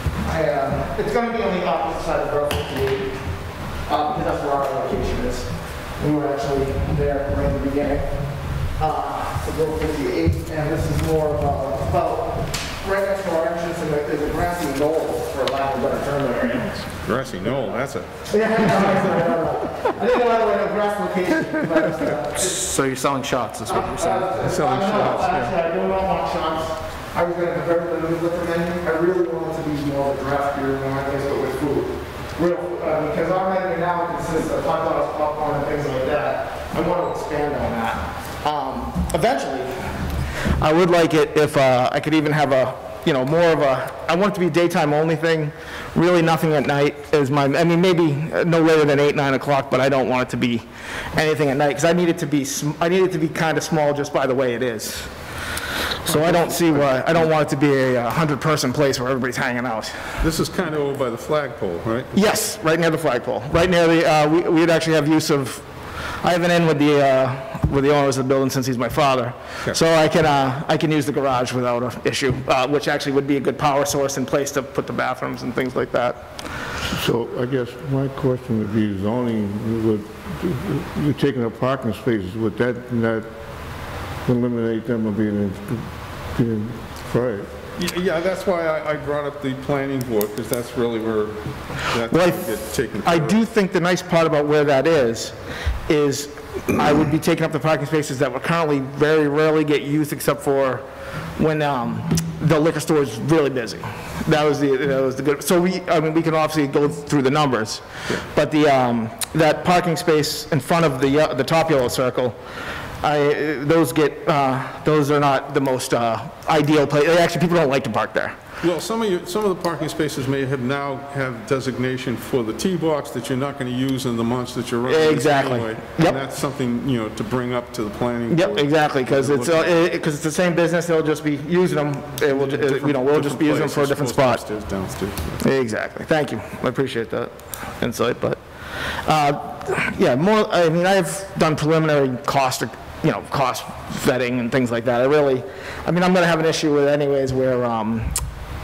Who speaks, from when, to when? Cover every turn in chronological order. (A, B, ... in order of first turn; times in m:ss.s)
0:00.2-0:03.2 A
0:03.8-0:16.9 A
0:17.0-0:19.1 B
0:18.3-0:22.6 A
0:22.4-0:24.3 C
0:23.6-0:40.0 A
0:24.4-0:25.5 B
0:40.6-0:55.1 A
0:56.0-1:00.2 A
0:56.1-0:57.3 B
1:00.2-1:02.3 B
1:02.1-1:05.7 A
1:06.2-1:16.4 A
1:16.9-1:23.3 D
1:24.2-1:27.5 D
1:27.8-1:33.4 B
1:32.1-1:32.5 A
1:33.0-1:35.4 A
1:35.9-1:40.8 A
1:41.4-1:52.4 A
1:53.0-1:58.4 A
1:58.6-2:09.8 B
2:04.8-2:06.2 A
2:08.3-2:14.4 A
2:12.2-2:15.4 B
2:15.4-2:18.4 A
2:19.0-2:28.2 A